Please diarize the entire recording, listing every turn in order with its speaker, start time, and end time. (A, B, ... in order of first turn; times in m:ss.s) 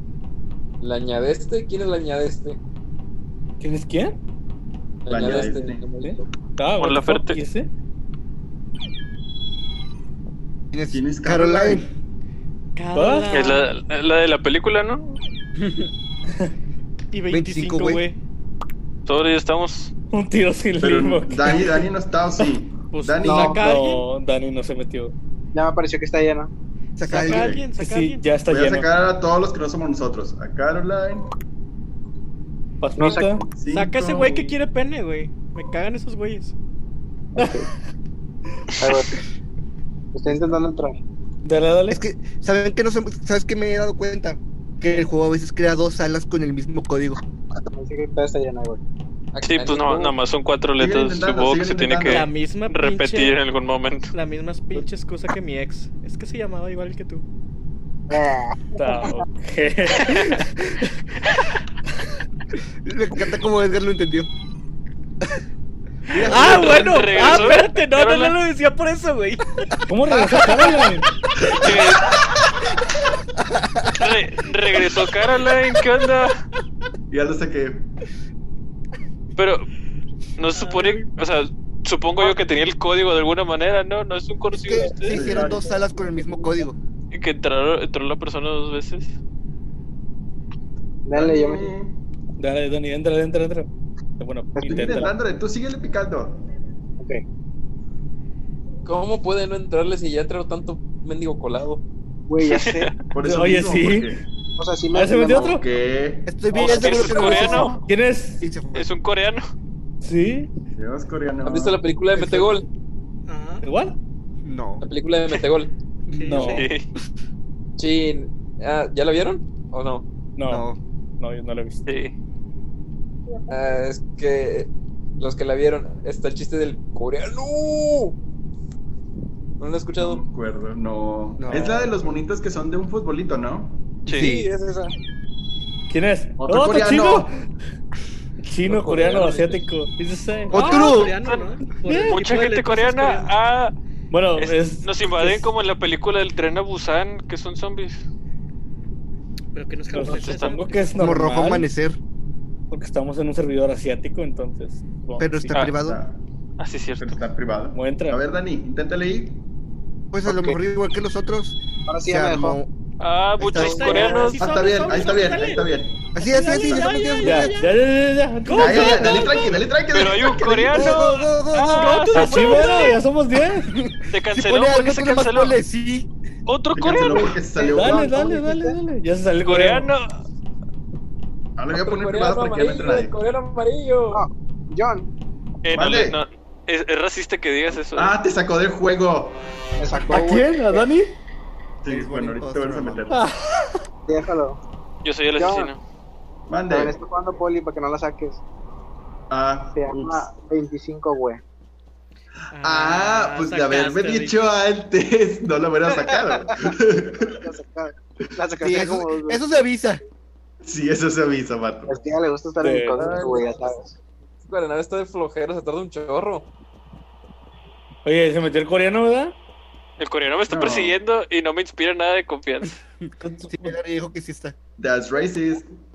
0:00.8-0:02.6 A
0:03.6-0:04.2 B
0:05.0-0:06.2 A
0:05.1-0:05.8 C
0:06.0-0:07.7 B
0:06.8-0:07.4 D
0:10.7-0:11.9 E
0:10.9-0:11.9 C
0:12.8-0:13.7 F
0:12.9-0:13.3 B
0:13.3-0:15.2 D
0:15.6-0:15.9 E
0:17.1-0:18.2 F
0:17.3-0:18.0 E
0:19.0-0:19.9 D
0:20.1-0:21.8 B
0:20.8-0:23.6 C
0:22.9-0:24.0 F
0:23.3-0:25.1 B
0:25.5-0:26.5 G
0:27.0-0:27.5 E
0:27.0-0:28.2 F
0:27.2-0:27.7 C
0:27.8-0:28.9 B
0:28.5-0:31.3 C
0:32.8-0:33.4 B
0:33.0-0:33.3 G
0:33.1-0:34.3 C
0:33.7-0:36.5 F
0:34.1-0:34.6 B
0:37.3-0:37.6 G
0:37.4-0:37.6 B
0:38.8-0:39.2 G
0:40.1-0:41.0 G
0:41.4-0:42.0 B
0:41.9-0:47.2 E
0:47.7-0:48.8 G
0:49.3-0:50.2 A
0:49.4-0:54.1 D
0:50.8-0:52.3 C
0:52.0-0:53.4 F
0:54.1-0:57.2 F
0:58.1-0:59.2 G
0:58.8-1:01.0 B
1:02.8-1:04.3 E
1:06.1-1:07.6 C
1:06.1-1:09.7 F
1:06.3-1:08.3 D
1:09.9-1:11.1 B
1:11.4-1:12.2 C
1:11.5-1:12.2 D
1:13.4-1:14.0 E
1:13.9-1:16.4 D
1:17.1-1:17.9 C
1:19.4-1:19.7 D
1:20.4-1:25.2 D
1:20.5-1:21.0 F
1:24.5-1:26.8 E
1:25.1-1:25.7 C
1:27.1-1:29.1 D
1:31.0-1:31.7 G
1:31.1-1:32.0 C
1:32.4-1:33.7 B
1:34.2-1:35.1 B
1:34.6-1:34.8 G
1:34.6-1:36.4 C
1:38.8-1:41.8 A
1:42.3-1:42.9 G
1:42.4-1:42.9 D
1:43.1-1:44.2 C
1:43.2-1:44.1 B
1:44.6-1:45.5 G
1:44.9-1:45.6 B
1:45.2-1:46.3 C
1:46.2-1:47.8 E
1:46.5-1:47.8 D
1:47.0-1:48.4 B
1:48.4-1:48.9 E
1:48.7-1:49.4 D
1:50.0-1:50.5 B
1:50.8-1:51.8 C
1:51.4-1:52.7 A
1:52.1-1:52.5 E
1:53.3-1:53.6 F
1:53.6-1:54.0 B
1:54.4-1:54.8 E
1:54.8-1:55.7 A
1:56.1-1:56.6 E
1:56.1-1:56.7 F
1:56.2-1:56.7 B
1:56.4-1:56.8 D
1:57.8-2:00.1 A
2:00.4-2:00.6 B
2:00.5-2:00.8 E
2:01.2-2:01.8 B
2:01.9-2:02.1 D
2:03.5-2:08.2 A
2:09.6-2:10.2 A
2:10.0-2:13.8 C
2:11.4-2:11.9 E
2:14.0-2:14.3 D
2:14.1-2:14.5 E
2:14.1-2:14.9 A
2:15.9-2:17.3 B
2:16.4-2:17.3 C
2:18.4-2:21.0 B
2:18.6-2:19.6 A
2:20.5-2:21.1 E
2:20.5-2:23.3 F
2:21.2-2:21.5 D
2:21.8-2:22.2 B
2:22.0-2:23.7 D
2:24.1-2:25.5 B
2:24.4-2:28.0 D
2:29.5-2:31.0 F
2:29.9-2:31.6 B
2:30.1-2:30.6 D
2:31.0-2:32.0 E
2:32.7-2:35.5 B
2:35.2-2:36.0 E
2:35.6-2:36.2 C
2:36.6-2:37.2 D
2:37.0-2:39.4 C
2:37.7-2:38.2 B
2:40.1-2:42.7 E
2:40.3-2:40.5 G
2:41.9-2:42.6 G
2:43.0-2:44.4 D
2:43.4-2:44.2 E
2:43.6-2:47.8 F
2:44.4-2:46.9 C
2:46.1-2:47.5 E
2:47.2-2:49.5 B
2:48.4-2:49.5 F
2:48.5-2:51.0 C
2:49.9-2:53.0 D
2:50.7-2:52.2 E
2:51.7-2:53.0 F
2:52.1-2:53.7 B
2:53.7-2:56.1 E
2:54.1-2:55.6 D
2:56.5-2:57.4 D
2:56.7-2:58.3 C
2:57.5-2:58.8 G
2:57.7-2:59.9 B
2:59.4-3:00.2 D
3:01.6-3:03.1 C
3:01.7-3:04.2 A
3:04.1-3:05.1 G
3:05.6-3:08.1 D
3:05.7-3:06.2 C
3:07.9-3:09.4 C
3:09.8-3:10.8 G
3:10.1-3:11.1 B
3:11.8-3:13.3 C
3:11.8-3:13.1 E
3:13.1-3:13.8 B
3:14.1-3:14.6 G
3:15.0-3:15.8 D
3:15.4-3:15.7 G
3:16.5-3:17.0 C
3:16.7-3:18.4 G
3:19.3-3:20.3 C
3:19.7-3:21.4 G
3:22.5-3:24.4 F
3:22.6-3:27.4 C
3:26.0-3:29.4 G
3:28.6-3:30.0 E
3:30.6-3:32.0 C
3:31.9-3:33.9 G
3:32.6-3:33.1 B
3:32.9-3:33.5 A
3:34.4-3:36.5 A
3:38.0-3:39.4 B
3:40.0-3:42.8 D
3:40.5-3:41.0 C
3:43.2-3:43.8 B
3:43.5-3:44.5 E
3:44.8-3:45.7 C